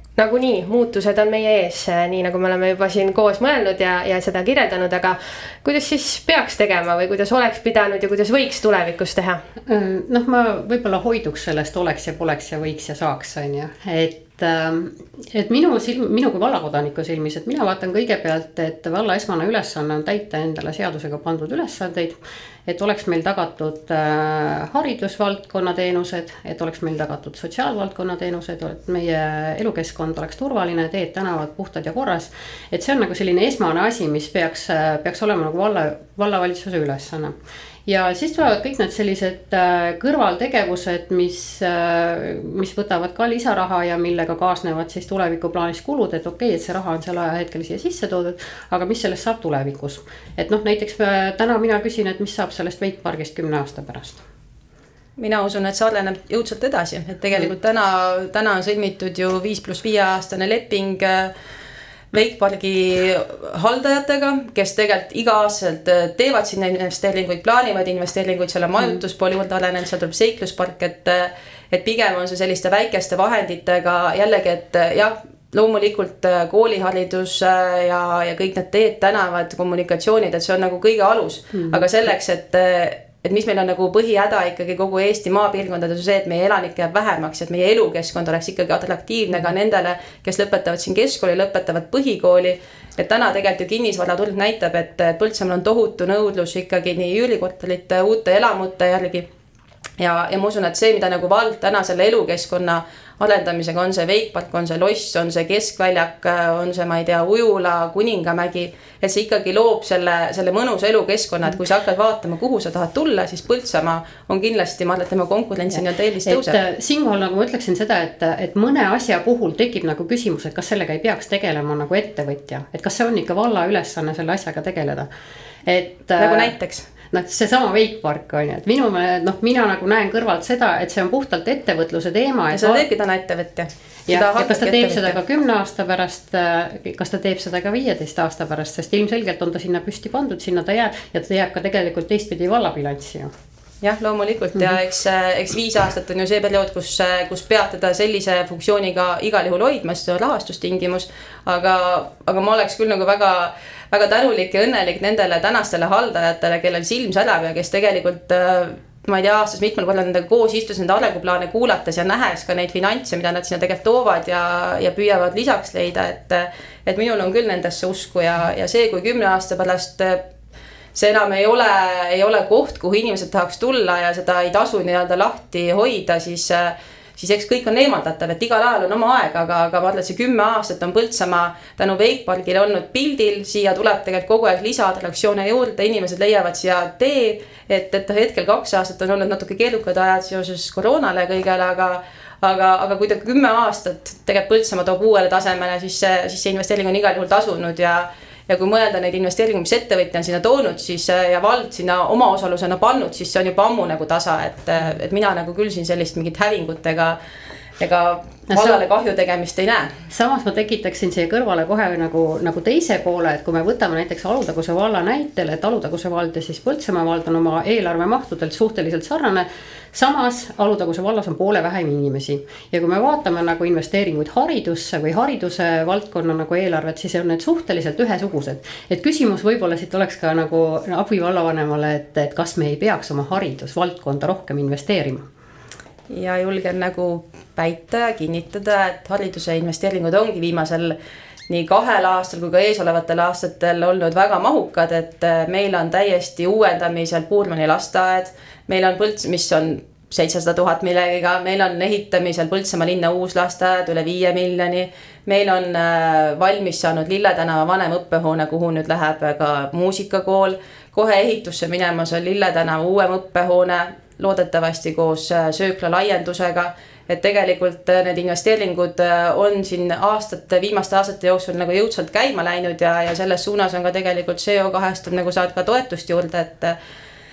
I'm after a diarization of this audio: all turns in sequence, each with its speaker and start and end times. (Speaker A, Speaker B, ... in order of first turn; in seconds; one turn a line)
Speaker A: 0.2-9.4
Speaker B: 9.7-37.3
Speaker B: 37.9-54.2
Speaker C: 55.2-61.3
Speaker C: 62.1-99.3
Speaker C: 100.0-116.6
Speaker B: 116.2-125.1
Speaker B: 125.6-126.5
Speaker C: 126.2-126.8
Speaker B: 127.1-132.8
Speaker C: 132.5-135.2
Speaker B: 134.1-143.3
Speaker C: 143.8-170.2
Speaker C: 170.9-207.2
Speaker C: 207.8-209.9
Speaker B: 208.5-208.8
Speaker B: 210.1-235.3
Speaker C: 236.1-240.9
Speaker C: 241.5-276.8